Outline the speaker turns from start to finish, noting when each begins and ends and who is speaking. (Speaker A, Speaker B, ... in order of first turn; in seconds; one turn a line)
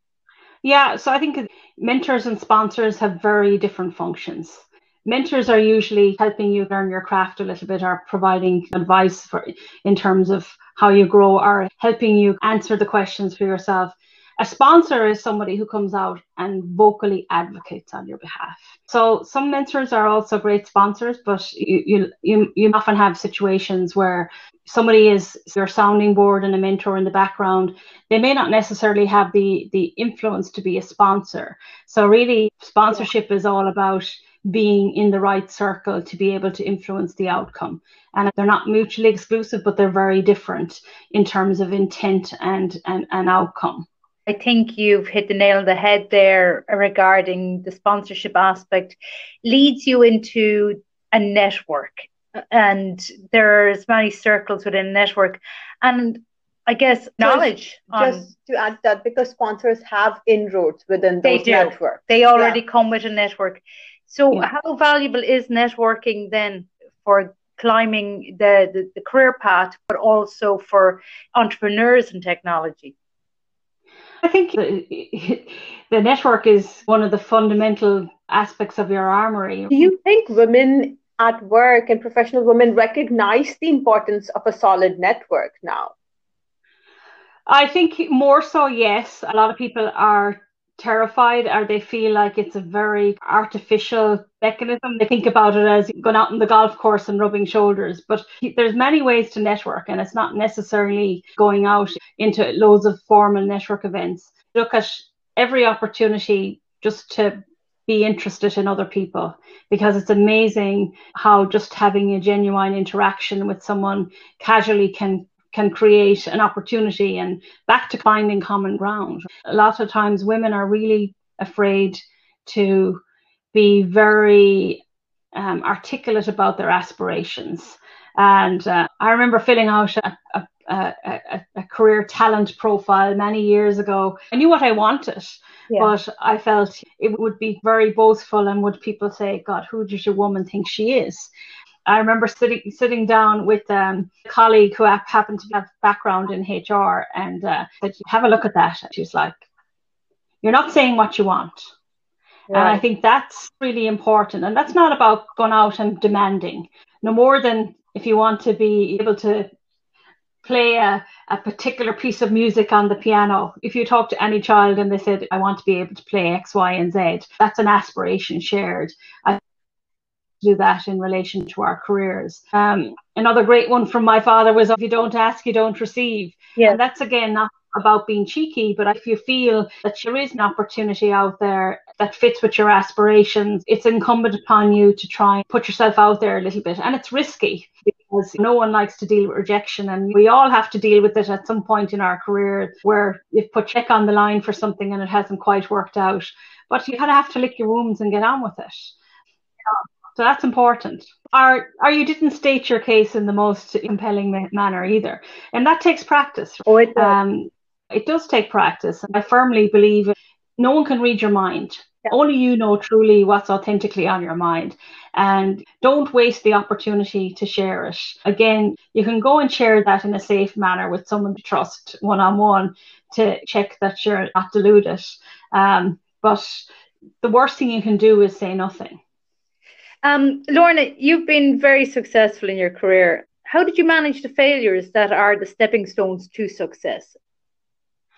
Speaker A: 0.6-43.9
Speaker B: 44.3-58.3
Speaker C: 57.2-62.6
Speaker B: 61.2-72.9
Speaker A: 74.2-79.8
Speaker C: 79.7-85.9
Speaker A: 87.5-123.0
Speaker A: 123.5-124.8
Speaker A: 125.3-141.3
Speaker A: 141.9-149.4
Speaker A: 150.4-151.7
Speaker B: 152.5-152.8
Speaker A: 152.5-159.5
Speaker A: 160.4-169.4
Speaker A: 170.4-198.9
Speaker A: 199.7-226.7
Speaker B: 206.7-207.2
Speaker A: 227.2-229.0
Speaker B: 230.0-237.2